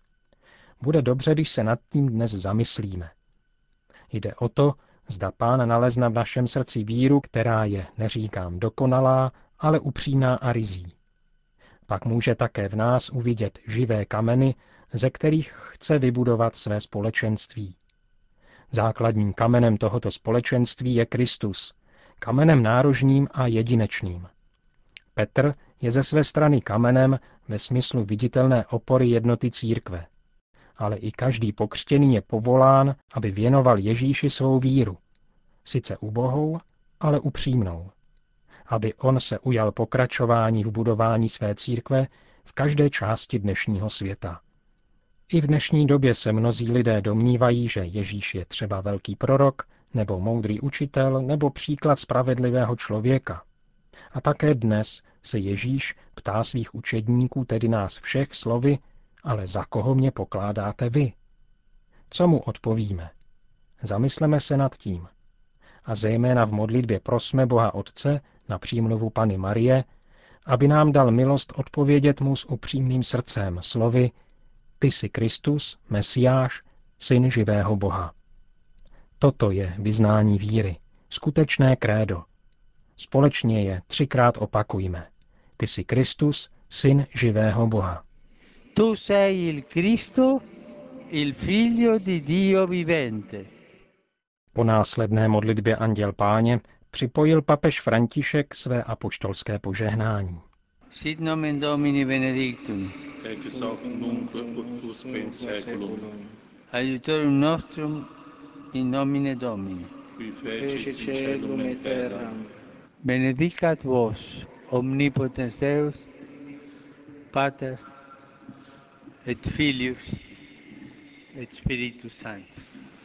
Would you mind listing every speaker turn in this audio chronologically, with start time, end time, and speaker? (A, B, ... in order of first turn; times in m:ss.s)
0:00.8-0:03.1 A
0:04.1-0:11.0 A
0:11.9-0:17.8 A
0:18.7-0:24.3 A
0:25.1-0:30.1 A
0:30.8-0:35.0 A
0:35.6-0:37.9 A
0:38.7-0:44.4 A
0:45.3-0:53.4 A
0:54.1-1:01.1 A
1:02.1-1:03.1 A
1:03.8-1:05.1 A
1:05.9-1:09.9 A
1:10.5-1:14.1 A
1:14.8-1:18.1 A
1:19.2-1:22.3 A
1:23.0-1:28.0 A
1:28.7-1:30.4 B
1:31.1-1:33.5 B
1:34.5-1:40.4 A
1:40.9-1:43.0 B
1:43.2-1:46.3 C
1:46.7-1:48.1 B
1:48.7-1:49.9 B
1:50.2-1:52.5 C
1:53.0-1:56.1 B
1:57.3-1:57.8 B
1:59.2-2:00.2 B
2:01.3-2:02.7 B